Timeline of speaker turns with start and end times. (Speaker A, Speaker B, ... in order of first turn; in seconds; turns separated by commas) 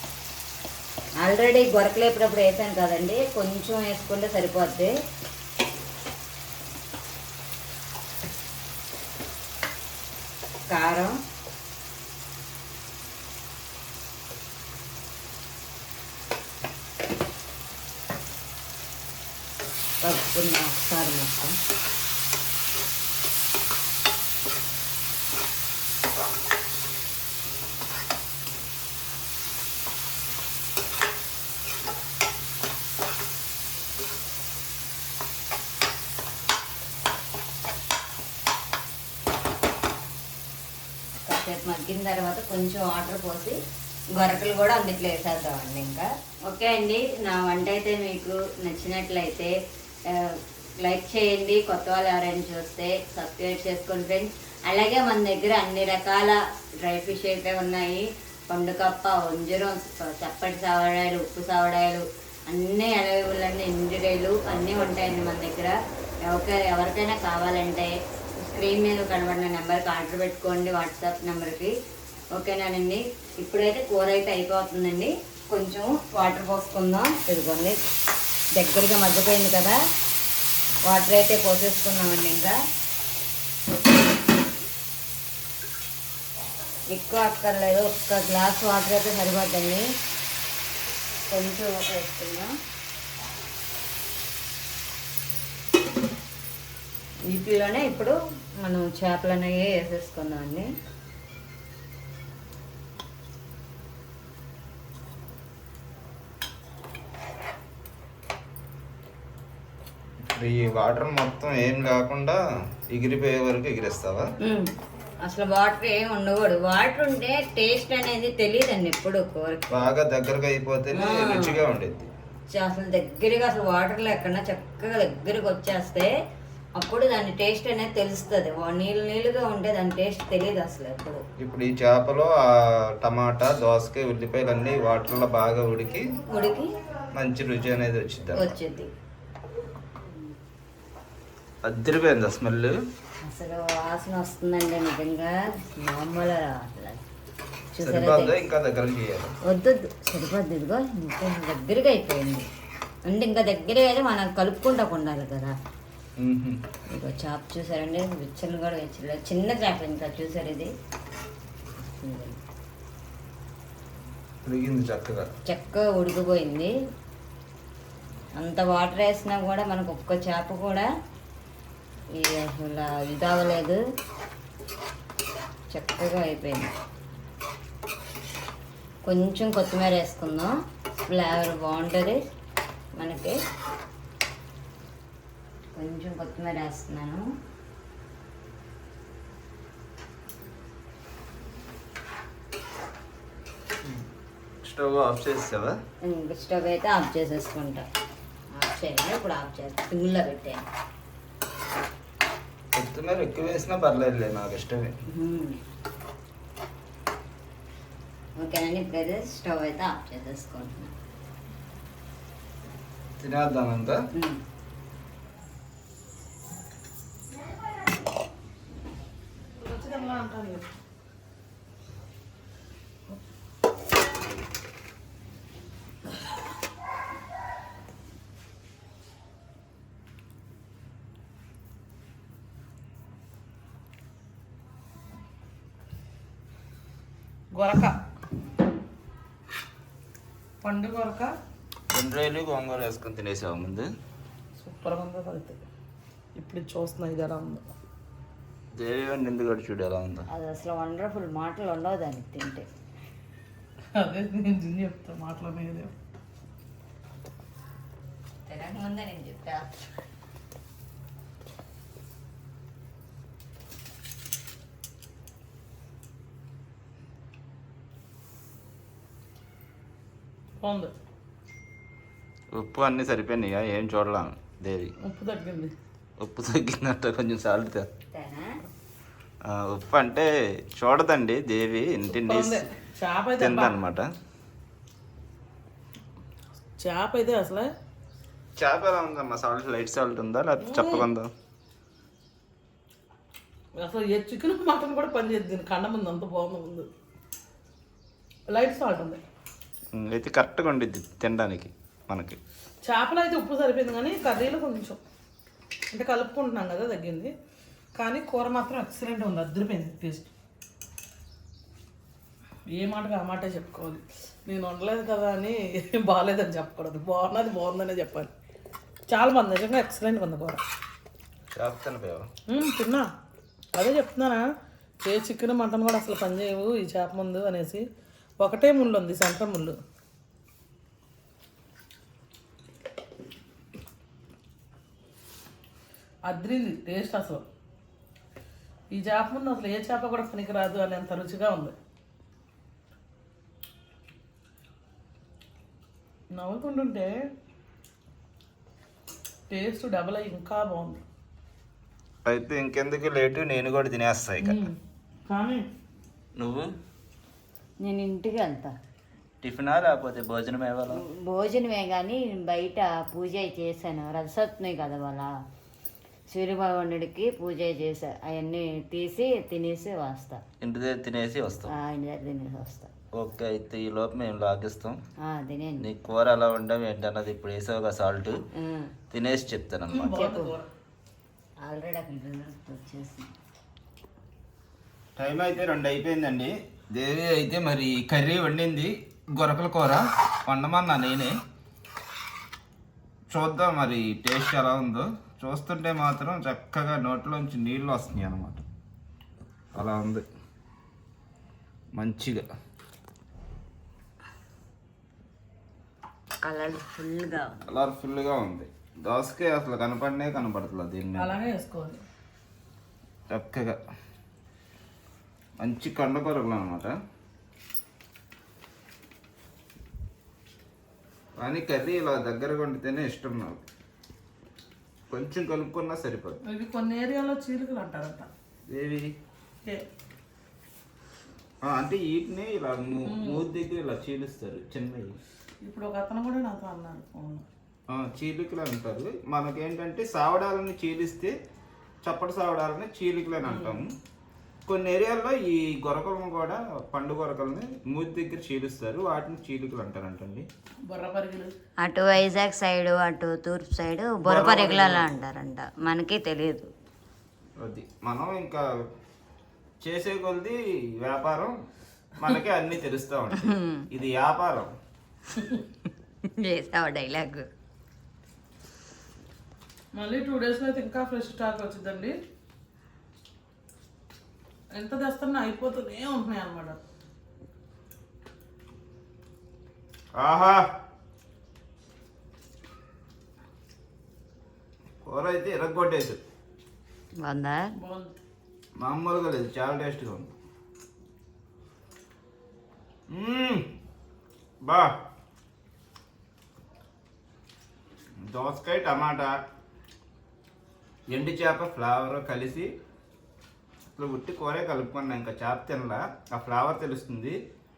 Speaker A: 1.2-4.9, Speaker A: 10.7-11.2, Speaker A: 20.0-21.6, Speaker A: 41.3-43.6, Speaker A: 44.1-49.5, Speaker A: 50.1-71.7, Speaker A: 72.3-77.8, Speaker A: 78.5-79.8, Speaker A: 80.9-82.6, Speaker A: 86.9-89.9, Speaker A: 91.3-92.5, Speaker A: 97.3-100.7, Speaker B: 110.2-114.3, Speaker A: 114.4-114.7, Speaker A: 115.2-119.9, Speaker B: 119.7-122.1, Speaker A: 120.9-121.6, Speaker A: 122.5-126.1, Speaker A: 126.8-131.2, Speaker B: 131.4-136.2, Speaker A: 136.3-136.7, Speaker B: 137.2-138.5, Speaker A: 138.3-138.9, Speaker B: 141.6-142.8, Speaker A: 143.2-147.0, Speaker A: 147.7-148.4, Speaker B: 147.8-149.3, Speaker A: 149.5-152.5, Speaker A: 153.1-155.6, Speaker B: 156.2-156.6, Speaker A: 156.9-160.7, Speaker A: 161.8-162.4, Speaker B: 164.4-165.3, Speaker A: 165.5-166.8, Speaker A: 168.4-170.9, Speaker A: 172.1-173.8, Speaker A: 175.7-176.8, Speaker A: 179.1-182.2, Speaker A: 183.0-183.4, Speaker A: 185.8-187.3, Speaker B: 194.6-195.8, Speaker A: 196.0-197.9, Speaker A: 198.5-200.7, Speaker B: 202.7-204.9, Speaker A: 205.1-205.6, Speaker A: 208.4-210.9, Speaker B: 213.2-214.1, Speaker A: 214.1-214.4, Speaker C: 219.6-220.7, Speaker C: 237.5-238.0, Speaker C: 240.6-241.4, Speaker B: 241.9-243.9, Speaker C: 244.6-245.6, Speaker C: 246.4-247.7, Speaker B: 248.7-250.3, Speaker A: 250.3-252.7, Speaker C: 253.9-255.9, Speaker A: 258.5-259.8, Speaker C: 270.6-270.9, Speaker B: 272.5-274.9, Speaker C: 275.0-275.7, Speaker B: 276.2-277.9, Speaker A: 278.1-278.6, Speaker B: 279.4-282.7, Speaker C: 282.1-283.8, Speaker B: 283.4-284.1, Speaker C: 286.8-287.7, Speaker B: 288.6-291.3, Speaker C: 290.6-291.1, Speaker C: 293.8-296.9, Speaker C: 298.5-299.2, Speaker B: 299.9-302.4, Speaker C: 302.9-305.0, Speaker C: 305.9-307.3, Speaker C: 307.9-310.3, Speaker C: 312.7-318.3, Speaker C: 319.1-320.6, Speaker B: 321.5-322.3, Speaker C: 322.5-323.1, Speaker C: 323.8-324.5, Speaker C: 325.0-327.9, Speaker C: 328.4-329.8, Speaker C: 336.3-337.4, Speaker C: 338.9-341.8, Speaker C: 346.3-347.1, Speaker C: 349.5-351.0, Speaker B: 352.2-354.6, Speaker C: 354.4-354.8, Speaker C: 355.3-355.7, Speaker B: 356.4-356.7, Speaker A: 357.8-358.8, Speaker B: 359.4-361.0, Speaker A: 360.9-365.3, Speaker A: 366.3-370.4, Speaker B: 370.6-371.7, Speaker A: 371.7-372.9, Speaker B: 373.1-375.0, Speaker A: 375.2-375.9, Speaker B: 375.8-378.4, Speaker A: 378.5-378.9, Speaker B: 379.1-380.2, Speaker C: 379.9-380.7, Speaker A: 380.1-380.5, Speaker A: 381.6-383.3, Speaker B: 385.2-391.4, Speaker B: 393.3-398.7, Speaker B: 399.7-400.2, Speaker B: 402.0-402.5, Speaker A: 406.4-407.6, Speaker B: 407.7-411.4, Speaker C: 411.2-412.0, Speaker B: 413.3-413.8, Speaker B: 415.6-417.0, Speaker B: 421.4-423.6, Speaker B: 425.1-426.4, Speaker C: 426.5-428.3, Speaker B: 428.7-429.1, Speaker B: 431.6-435.2, Speaker C: 433.1-433.4, Speaker C: 435.6-437.5, Speaker B: 437.9-441.4, Speaker B: 442.1-443.9, Speaker C: 443.4-443.8, Speaker B: 444.7-450.5, Speaker C: 450.9-451.5, Speaker A: 451.8-456.7, Speaker B: 454.2-455.1, Speaker B: 457.6-458.7, Speaker B: 459.8-461.6, Speaker B: 462.2-464.7, Speaker A: 463.3-463.9, Speaker A: 466.3-467.5, Speaker C: 469.9-472.2, Speaker C: 474.7-476.8, Speaker B: 480.2-480.7, Speaker B: 485.0-486.2, Speaker A: 487.2-487.7, Speaker C: 487.8-488.1, Speaker B: 488.8-490.3, Speaker B: 493.1-493.7, Speaker B: 494.6-495.0, Speaker B: 498.2-499.5, Speaker B: 501.1-502.7, Speaker B: 503.9-507.4